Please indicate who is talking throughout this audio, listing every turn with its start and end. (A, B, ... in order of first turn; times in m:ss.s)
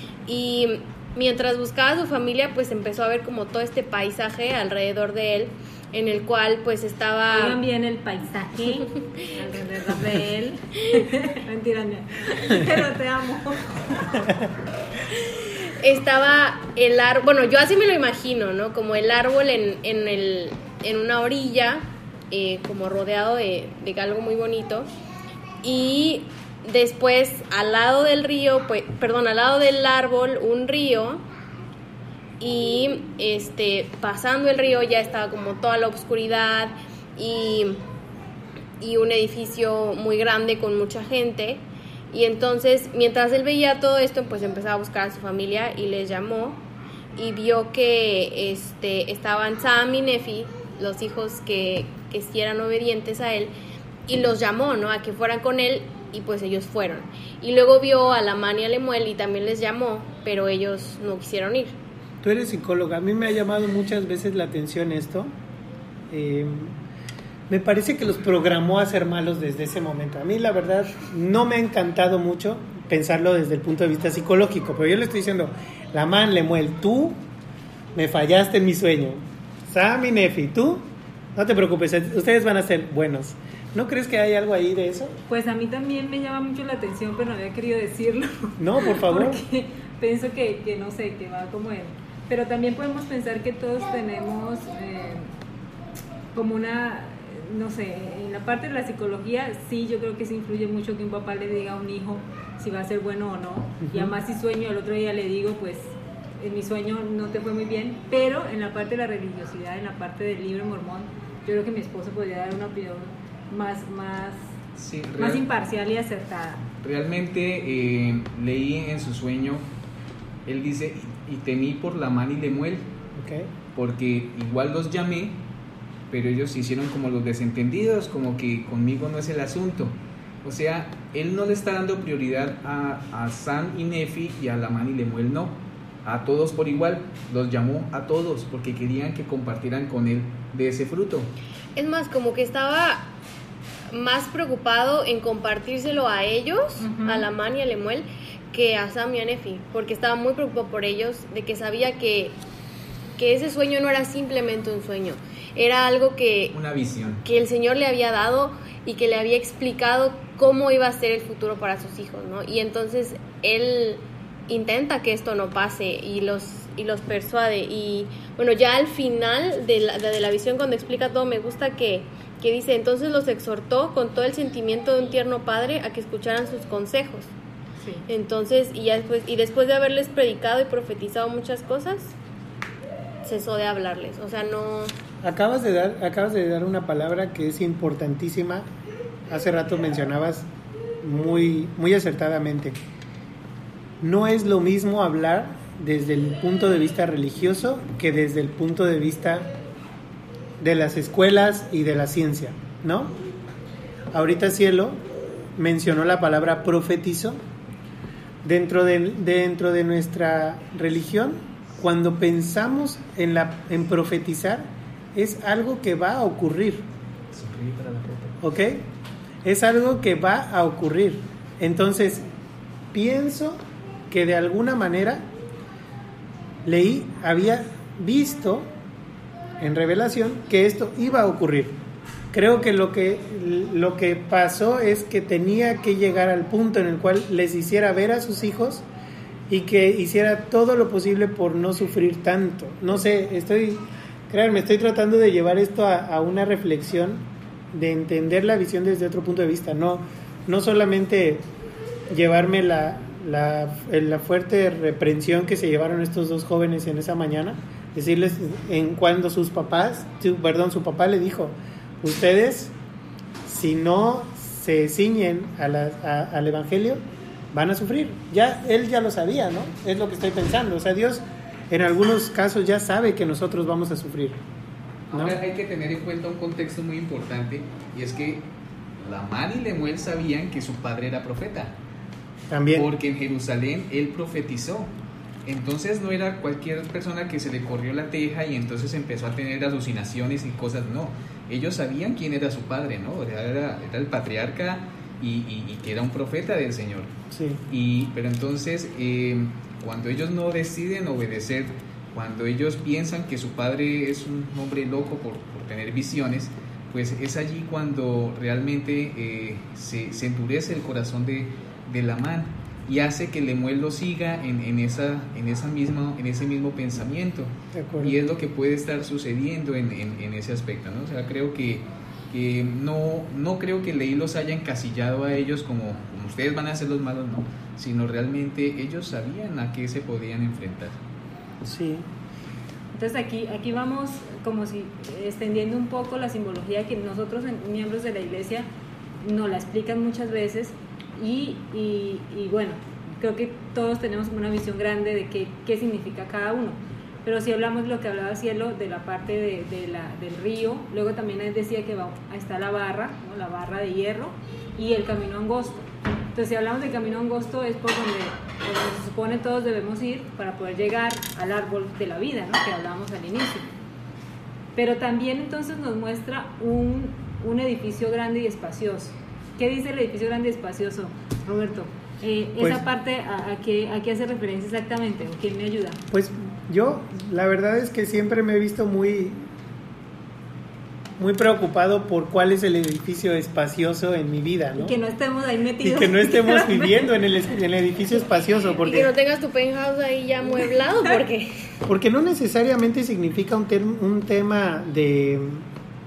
0:00.3-0:07.6 A
0:07.3-0:14.3 B
0:08.7-0:09.3 A
0:15.8-0:24.9 A
0:25.6-0:31.2 A
0:32.4-0:37.8 A
0:38.8-0:46.6 A
0:47.2-0:53.5 A
0:54.1-1:01.8 A
1:02.2-1:05.3 C
1:06.1-1:06.8 C
1:07.5-1:17.2 C
1:17.9-1:25.2 C
1:25.3-1:35.3 B
1:28.6-1:29.4 C
1:36.3-1:54.5 B
1:54.8-1:55.5 D
1:55.2-1:56.7 B
1:56.8-1:59.6 D
2:00.5-2:02.9 D
2:03.2-2:03.5 C
2:03.8-2:05.4 D
2:06.1-2:21.3 D
2:21.8-2:23.1 A
2:23.9-2:32.4 A
2:26.8-2:27.3 B
2:33.2-2:36.6 A
2:36.5-2:37.2 D
2:37.2-2:57.3 A
2:57.8-2:58.1 B
2:58.1-3:02.2 A
3:03.2-3:04.9 A
3:05.2-3:08.7 C
3:09.3-3:10.5 C
3:11.0-3:12.8 C
3:14.0-3:19.5 C
3:20.6-3:23.2 C
3:24.1-3:25.0 C
3:25.6-3:27.4 C
3:28.4-3:36.9 C
3:37.3-3:38.4 D
3:38.4-3:38.9 C
3:39.4-3:42.2 C
3:42.9-3:45.3 C
3:46.6-3:48.7 C
3:49.6-3:51.8 C
3:52.3-3:58.9 C
3:59.5-4:11.5 C
4:12.1-4:22.7 C
4:23.4-4:27.0 C
4:27.5-4:34.4 C
4:35.1-4:38.5 D
4:35.1-4:35.4 C
4:39.0-4:41.7 D
4:42.5-4:42.9 C
4:42.8-4:44.9 D
4:45.5-4:57.1 D
4:57.3-4:57.6 C
4:57.7-5:31.0 D
5:17.7-5:18.2 C
5:31.6-5:32.1 C
5:32.9-5:38.7 B
5:39.2-6:03.7 B
6:04.8-6:16.0 B
6:12.6-6:12.8 C
6:16.1-6:19.5 C
6:21.2-6:25.0 C
6:24.8-6:27.1 B
6:25.8-6:29.1 C
6:28.8-6:31.8 A
6:31.9-6:35.7 C